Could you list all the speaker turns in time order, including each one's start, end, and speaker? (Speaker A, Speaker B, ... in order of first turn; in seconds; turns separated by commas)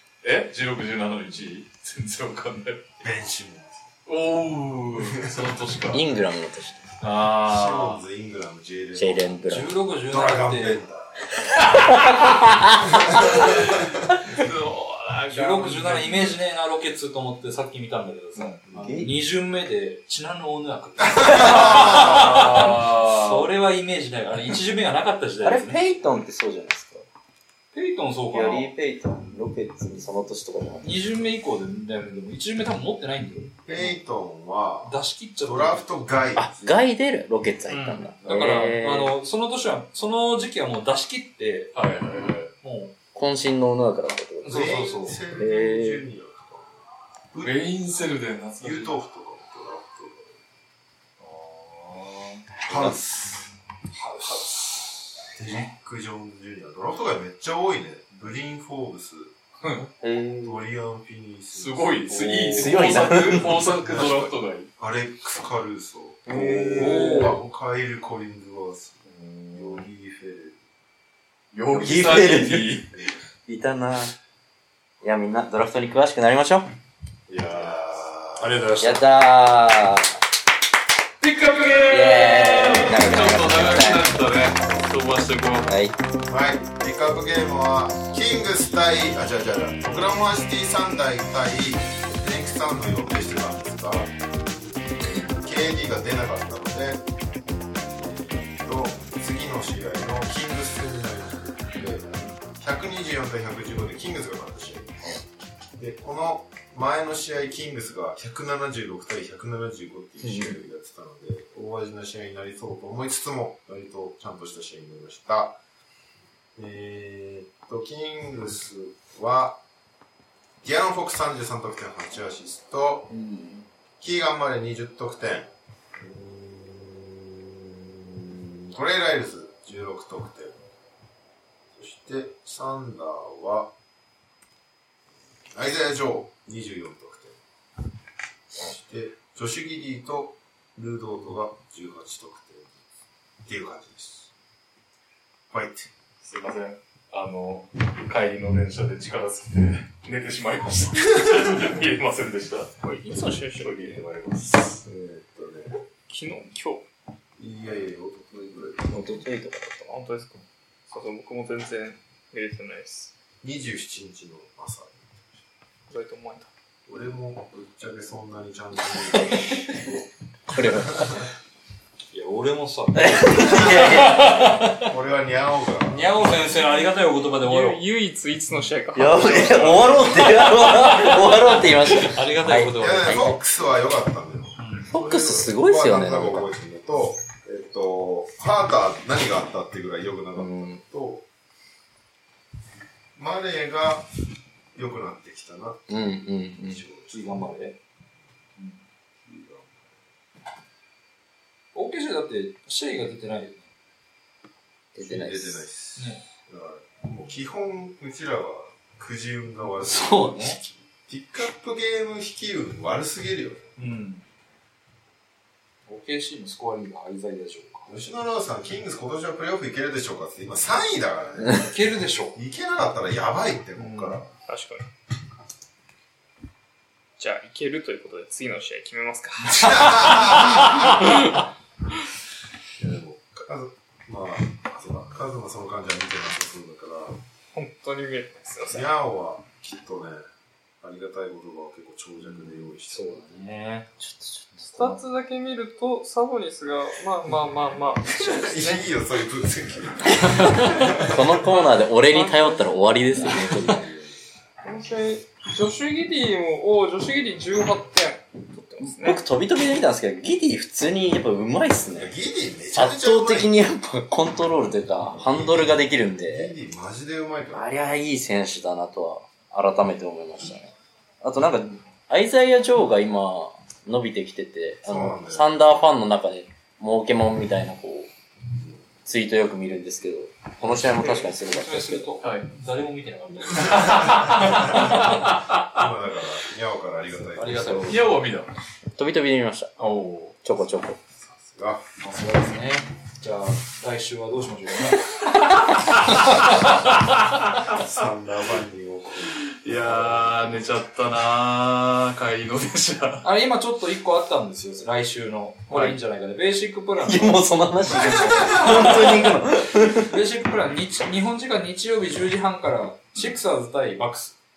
Speaker A: 0.2-2.9, Speaker B: 3.0-3.9, Speaker A: 4.0-6.0, Speaker B: 5.1-5.4, Speaker C: 5.9-6.9, Speaker A: 7.0-8.0, Speaker B: 7.4-9.4, Speaker C: 8.9-9.7, Speaker D: 9.5-10.8, Speaker B: 10.1-11.6, Speaker C: 11.5-13.5, Speaker B: 12.8-13.9, Speaker A: 14.3-16.4, Speaker D: 15.3-25.8, Speaker B: 18.7-19.0, Speaker C: 18.7-19.1, Speaker B: 21.2-22.1, Speaker C: 21.2-22.0, Speaker A: 21.3-23.5, Speaker C: 25.4-27.1, Speaker D: 27.7-28.7, Speaker C: 28.3-31.2, Speaker D: 30.8-33.9, Speaker B: 33.6-36.8, Speaker D: 34.8-36.1, Speaker C: 36.4-39.1, Speaker D: 37.7-41.7, Speaker A: 41.7-42.5, Speaker D: 42.6-42.9, Speaker C: 43.1-44.8, Speaker D: 44.4-45.2, Speaker B: 44.5-47.5, Speaker C: 45.3-46.0, Speaker A: 47.4-49.0, Speaker B: 48.6-50.4, Speaker A: 51.2-52.4, Speaker B: 52.6-53.5, Speaker C: 52.7-53.0, Speaker D: 53.9-54.9, Speaker B: 55.3-59.3, Speaker A: 59.6-59.9, Speaker C: 60.0-60.6, Speaker B: 60.4-70.6, Speaker A: 61.5-64.7, Speaker C: 62.5-63.6, Speaker C: 66.3-67.3, Speaker D: 66.7-67.4, Speaker A: 69.0-69.9, Speaker A: 71.5-72.9, Speaker C: 71.7-72.8, Speaker C: 73.4-74.1, Speaker C: 75.0-76.7, Speaker A: 77.3-79.0, Speaker B: 77.5-78.4, Speaker C: 78.8-80.2, Speaker A: 81.2-85.7, Speaker C: 81.9-84.1, Speaker C: 85.7-86.0, Speaker B: 86.3-94.1, Speaker B: 95.1-97.0, Speaker B: 97.9-105.2, Speaker B: 105.8-115.6, Speaker C: 110.2-110.5, Speaker B: 116.5-119.6, Speaker B: 120.6-123.1, Speaker D: 123.2-123.6, Speaker B: 124.0-130.6, Speaker B: 131.7-133.7, Speaker B: 135.5-137.4, Speaker B: 138.5-142.8, Speaker B: 143.4-144.3, Speaker B: 145.5-145.9, Speaker A: 146.2-152.8, Speaker E: 152.8-154.0, Speaker A: 153.5-154.8, Speaker B: 154.8-155.8, Speaker E: 156.1-156.9, Speaker B: 157.4-159.2, Speaker C: 158.9-159.9, Speaker E: 159.9-163.1, Speaker B: 163.4-165.5, Speaker E: 165.9-166.5, Speaker B: 166.9-170.0, Speaker C: 169.3-169.8, Speaker C: 170.5-171.2, Speaker B: 170.6-171.2, Speaker D: 172.1-174.8, Speaker C: 172.9-174.6, Speaker B: 173.5-176.3, Speaker D: 175.8-177.8, Speaker E: 177.4-180.1, Speaker C: 178.9-183.4, Speaker A: 179.4-180.1, Speaker D: 181.9-183.3, Speaker B: 182.7-191.2, Speaker D: 184.6-184.9, Speaker C: 184.9-186.5, Speaker C: 190.3-190.8, Speaker B: 193.2-194.1, Speaker B: 194.7-196.0, Speaker C: 195.9-196.8, Speaker B: 196.6-197.5, Speaker D: 197.1-197.8, Speaker B: 199.2-200.0, Speaker D: 201.7-203.7, Speaker C: 204.9-205.6, Speaker B: 205.0-213.7, Speaker D: 206.0-206.2, Speaker D: 209.8-210.6, Speaker D: 213.8-214.2, Speaker D: 215.9-217.9, Speaker B: 217.8-221.7, Speaker D: 221.5-222.4, Speaker B: 222.3-224.3, Speaker D: 223.8-224.2, Speaker E: 224.4-224.9, Speaker E: 227.2-231.1, Speaker B: 229.4-231.2, Speaker B: 232.8-237.2, Speaker E: 237.5-238.9, Speaker B: 238.7-240.2, Speaker B: 240.8-243.4, Speaker D: 242.2-243.9, Speaker C: 244.0-245.0, Speaker E: 244.7-248.9, Speaker B: 248.1-251.3, Speaker C: 250.2-253.9, Speaker E: 252.0-252.7, Speaker B: 253.6-254.2, Speaker E: 254.6-259.2, Speaker C: 258.8-262.1, Speaker B: 261.9-263.5, Speaker C: 262.7-266.5, Speaker B: 265.1-267.7, Speaker C: 267.5-278.1, Speaker B: 274.8-275.7, Speaker B: 278.6-278.8, Speaker C: 279.0-282.1, Speaker D: 280.7-285.1, Speaker A: 282.2-282.5, Speaker A: 283.7-285.7, Speaker B: 285.7-288.0, Speaker D: 287.4-288.1, Speaker A: 287.8-288.5, Speaker C: 288.9-289.7, Speaker A: 289.8-290.4, Speaker C: 290.4-291.0, Speaker B: 291.1-292.3, Speaker D: 292.0-295.2, Speaker D: 296.1-296.7, Speaker A: 296.1-297.7, Speaker B: 297.7-300.6, Speaker A: 299.5-303.2, Speaker D: 303.2-309.3, Speaker A: 305.7-306.0, Speaker C: 307.0-310.1, Speaker B: 307.9-309.0, Speaker D: 309.9-314.4